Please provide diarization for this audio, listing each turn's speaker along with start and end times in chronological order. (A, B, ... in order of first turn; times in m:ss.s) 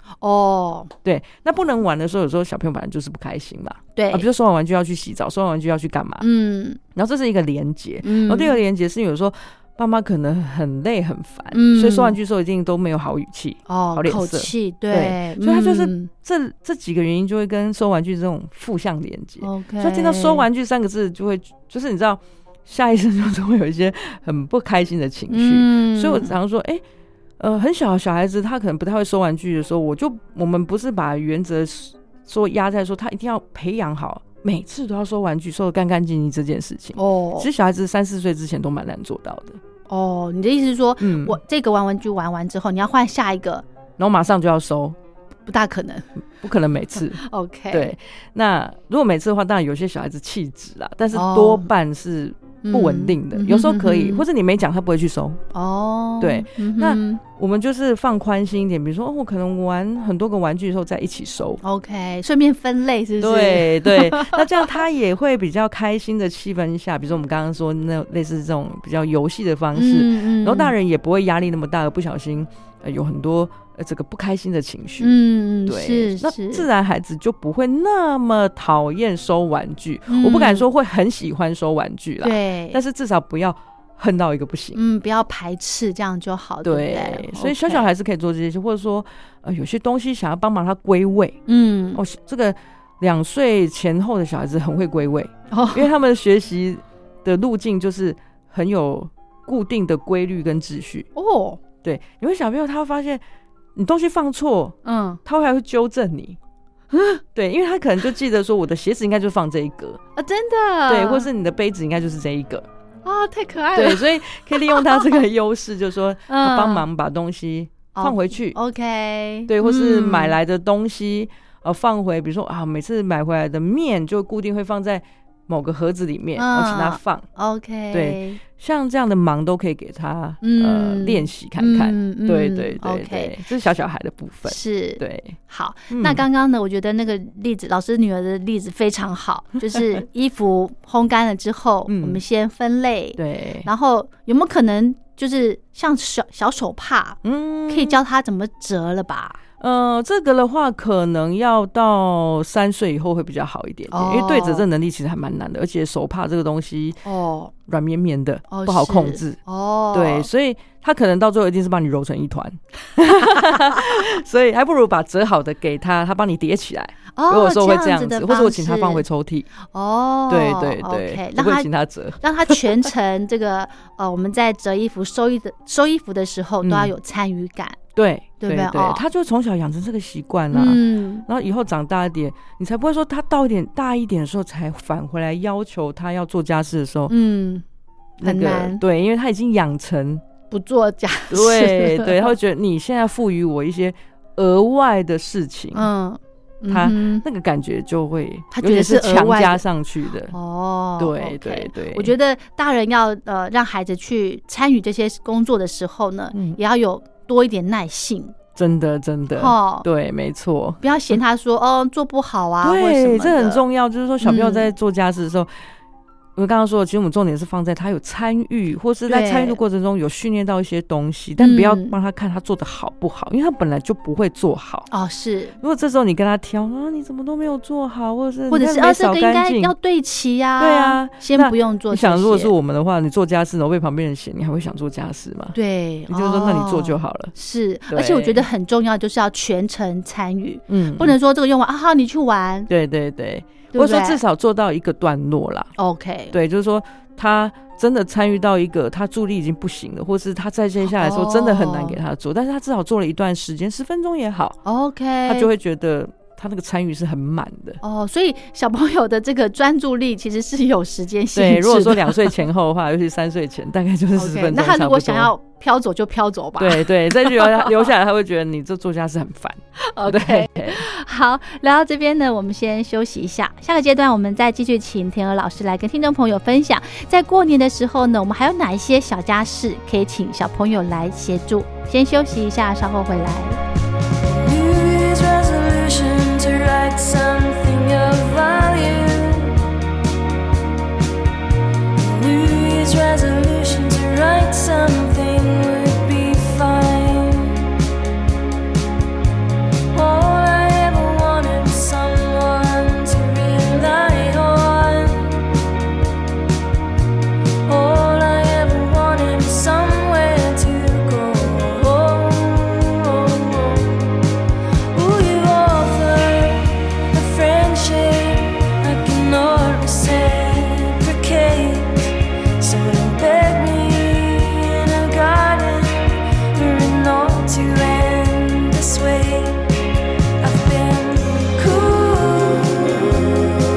0:00.2-0:00.9 A
0:01.0-0:06.2 B
0:04.0-0:04.3 A
0:06.2-0:06.8 A
0:07.0-0:26.8 B
0:08.0-0:08.6 A
0:11.5-0:12.2 A
0:13.7-0:16.1 A
0:19.4-0:20.5 A
0:25.3-0:26.3 A
0:27.4-0:39.6 B
0:37.0-0:37.5 A
0:39.9-0:43.6 A
0:41.0-0:41.4 B
0:44.0-0:45.0 B
0:45.5-0:46.1 A
0:46.4-0:55.4 B
0:47.2-0:47.9 A
0:51.1-0:51.7 A
0:52.6-0:54.2 A
0:55.5-0:57.2 A
0:56.2-1:01.6 B
1:01.6-1:04.8 A
1:03.2-1:24.8 B
1:09.8-1:10.7 A
1:15.0-1:16.7 A
1:20.1-1:20.7 A
1:22.2-1:22.8 A
1:24.8-1:27.9 A
1:26.6-1:31.4 B
1:31.5-1:32.0 A
1:32.0-1:41.1 B
1:35.5-1:35.9 A
1:41.2-1:41.6 A
1:41.8-1:43.2 B
1:43.8-1:46.4 B
1:44.8-1:45.2 A
1:46.9-1:47.2 A
1:47.4-1:50.0 B
1:50.2-1:51.3 A
1:50.9-1:52.7 B
1:53.0-1:55.1 A
1:53.8-1:58.6 B
1:56.3-1:56.8 A
1:58.0-2:00.4 A
1:59.5-2:07.3 B
2:06.4-2:08.4 A
2:07.9-2:15.4 B
2:10.4-2:13.3 A
2:14.5-2:29.4 A
2:15.9-2:16.2 B
2:19.8-2:20.0 B
2:21.9-2:22.2 B
2:23.2-2:23.7 B
2:27.2-2:28.0 B
2:29.6-2:37.0 B
2:33.9-2:34.6 A
2:37.0-2:37.5 A
2:37.7-2:39.4 B
2:38.5-2:40.3 A
2:39.9-2:49.5 B
2:47.2-2:49.0 A
2:49.6-2:51.7 A
2:50.3-2:52.9 B
2:52.2-2:57.8 A
2:56.6-2:56.9 B
2:58.0-3:07.1 B
2:58.4-2:59.0 A
3:00.5-3:01.3 A
3:07.1-3:07.6 A
3:08.2-3:10.2 B
3:08.2-3:08.8 A
3:10.5-3:12.3 A
3:11.3-3:15.9 B
3:15.8-3:17.2 A
3:16.7-3:20.3 B
3:18.5-3:19.6 A
3:20.3-3:28.4 A
3:21.0-3:22.1 B
3:26.3-3:26.6 B
3:28.6-3:30.8 B
3:29.3-3:29.9 A
3:30.8-3:33.6 A
3:32.6-3:35.5 B
3:34.2-3:34.7 A
3:36.4-3:44.9 B
3:39.1-3:39.6 A
3:41.4-3:42.0 A
3:44.9-3:45.6 A
3:45.6-3:49.7 B
3:48.5-3:52.5 A
3:50.6-3:55.6 B
3:55.5-4:02.7 A
3:56.1-3:57.3 B
3:57.9-3:58.5 B
4:00.7-4:01.2 B
4:02.7-4:05.7 B
4:03.7-4:04.2 A
4:05.8-4:06.3 A
4:06.3-4:14.6 B
4:10.8-4:12.0 A
4:14.6-4:15.5 A
4:15.2-4:17.8 B
4:17.8-4:22.2 A
4:21.4-4:25.3 B
4:24.2-4:27.9 A
4:26.6-4:30.8 B
4:29.8-4:43.6 A
4:44.2-4:49.6 C
4:52.0-4:57.7 C
4:59.9-5:05.5 C
5:07.7-5:14.2 C
5:14.9-5:29.7 C
5:30.4-5:33.4 C